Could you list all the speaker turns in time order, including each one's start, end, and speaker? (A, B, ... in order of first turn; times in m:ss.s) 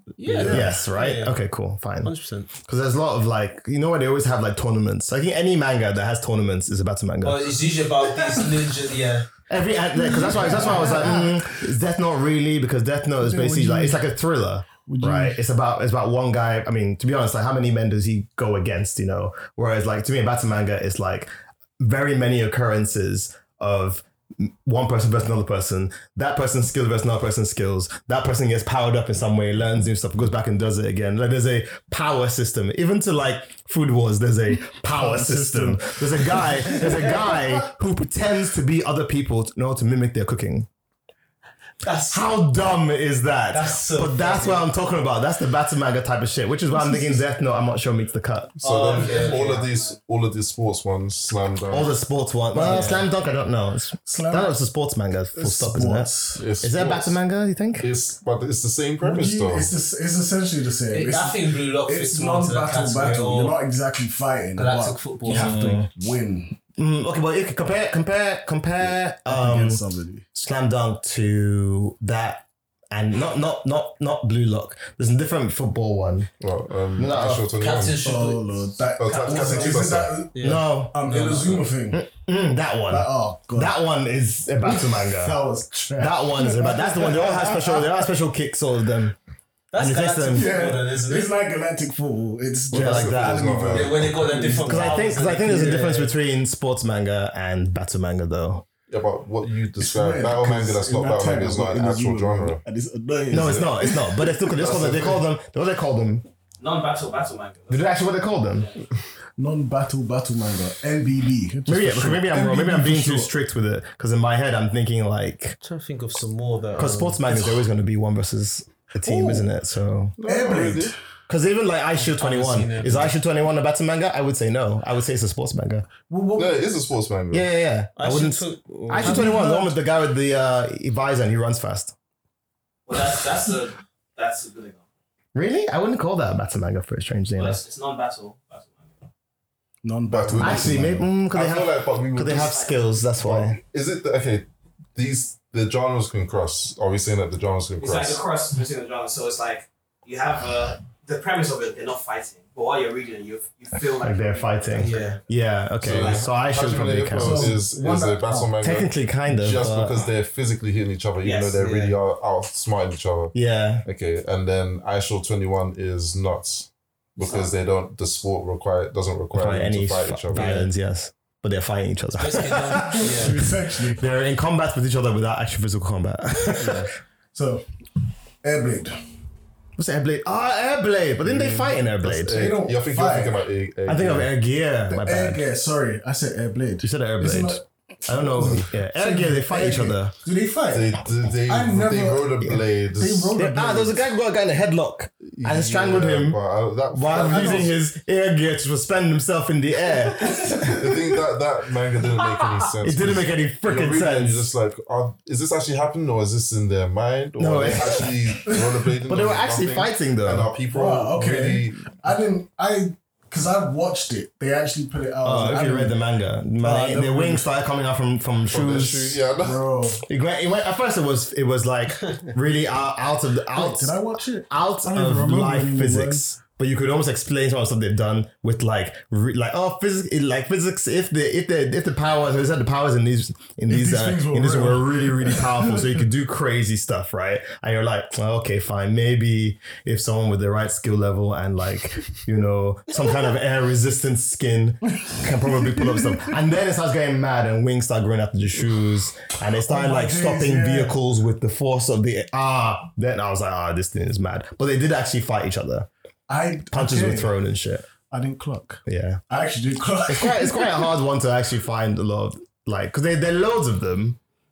0:00.2-0:01.4 A
0:00.2-0:00.8 B
0:00.5-0:07.6 C
0:02.0-0:02.5 A
0:07.2-0:09.3 A
0:09.5-0:40.7 C
0:09.9-0:11.6 B
0:13.2-0:14.0 B
0:14.8-0:15.4 B
0:34.9-0:37.5 B
0:41.8-0:42.3 A
0:42.1-0:48.6 C
0:43.5-0:44.6 A
0:46.7-0:47.2 B
0:48.6-0:51.9 D
0:48.6-0:49.6 A
0:48.8-0:50.0 E
0:51.7-0:57.9 C
0:52.5-0:53.0 B
0:52.6-0:53.1 A
0:54.0-0:54.5 B
0:55.4-0:56.4 B
0:56.4-0:57.2 D
0:57.8-0:59.7 D
0:59.0-1:06.6 B
1:00.9-1:03.6 A
1:04.6-1:05.8 A
1:05.2-1:05.9 C
1:06.8-1:09.8 C
1:09.2-1:10.2 B
1:10.3-1:16.3 C
1:16.4-1:18.0 D
1:17.0-1:17.5 C
1:17.5-1:18.4 A
1:18.0-1:22.0 B
1:19.0-1:20.2 D
1:19.1-1:21.7 A
1:20.4-1:21.1 C
1:21.9-1:25.4 C
1:22.9-1:23.7 B
1:24.6-1:28.0 B
1:26.0-1:29.2 C
1:29.7-1:31.3 A
1:29.8-1:30.5 C
1:30.3-1:35.9 B
1:32.7-1:34.3 D
1:32.7-1:33.6 C
1:33.7-1:36.1 A
1:34.6-1:38.6 C
1:38.9-1:42.6 D
1:39.8-1:44.3 B
1:43.3-1:46.3 C
1:43.3-1:43.6 D
1:44.6-1:45.2 D
1:46.6-1:48.8 E
1:47.7-1:48.7 C
1:49.4-1:53.3 B
1:51.7-1:55.6 C
1:55.6-1:57.2 A
1:56.8-2:00.2 C
1:57.3-1:57.6 B
1:59.0-1:59.5 B
2:00.2-2:00.9 D
2:00.2-2:01.0 B
2:01.3-2:05.9 C
2:02.0-2:03.1 A
2:06.1-2:06.7 B
2:06.4-2:07.5 D
2:07.3-2:11.9 C
2:08.0-2:09.5 A
2:08.9-2:09.7 B
2:12.8-2:14.8 E
2:15.3-2:17.6 C
2:17.4-2:18.9 E
2:19.8-2:21.1 B
2:20.1-2:22.6 D
2:20.4-2:23.6 C
2:22.2-2:22.8 E
2:23.2-2:28.2 D
2:27.8-2:35.2 E
2:34.0-2:37.6 C
2:34.8-2:35.2 A
2:35.8-2:50.6 D
2:37.2-2:38.5 B
2:38.6-2:40.1 C
2:41.2-2:41.7 E
2:41.6-2:41.9 A
2:43.3-2:43.8 C
2:47.2-2:47.5 E
2:49.3-2:56.9 C
2:50.3-2:50.7 A
2:52.2-2:53.4 A
2:52.8-2:54.0 B
2:56.6-2:56.9 A
2:57.3-2:57.7 B
2:58.4-2:59.0 B
2:59.8-3:02.4 C
3:01.2-3:04.3 D
3:02.3-3:03.4 B
3:03.9-3:05.4 C
3:04.9-3:14.0 B
3:06.8-3:10.1 C
3:10.7-3:13.3 D
3:13.4-3:16.4 C
3:15.2-3:17.8 D
3:16.9-3:20.9 C
3:17.1-3:17.7 B
3:20.5-3:32.0 D
3:22.8-3:24.5 C
3:27.4-3:28.4 C
3:29.0-3:30.5 C
3:30.7-3:36.0 B
3:35.2-3:39.2 C
3:36.6-3:37.5 B
3:38.5-3:39.6 D
3:39.4-3:40.0 B
3:40.0-3:43.9 C
3:43.5-3:46.2 B
3:44.5-4:15.9 C
3:53.7-3:56.0 B
4:09.6-4:10.9 B
4:16.3-4:17.3 B
4:16.7-4:17.9 C
4:18.1-4:20.9 B
4:18.8-4:19.2 C
4:20.1-4:24.2 C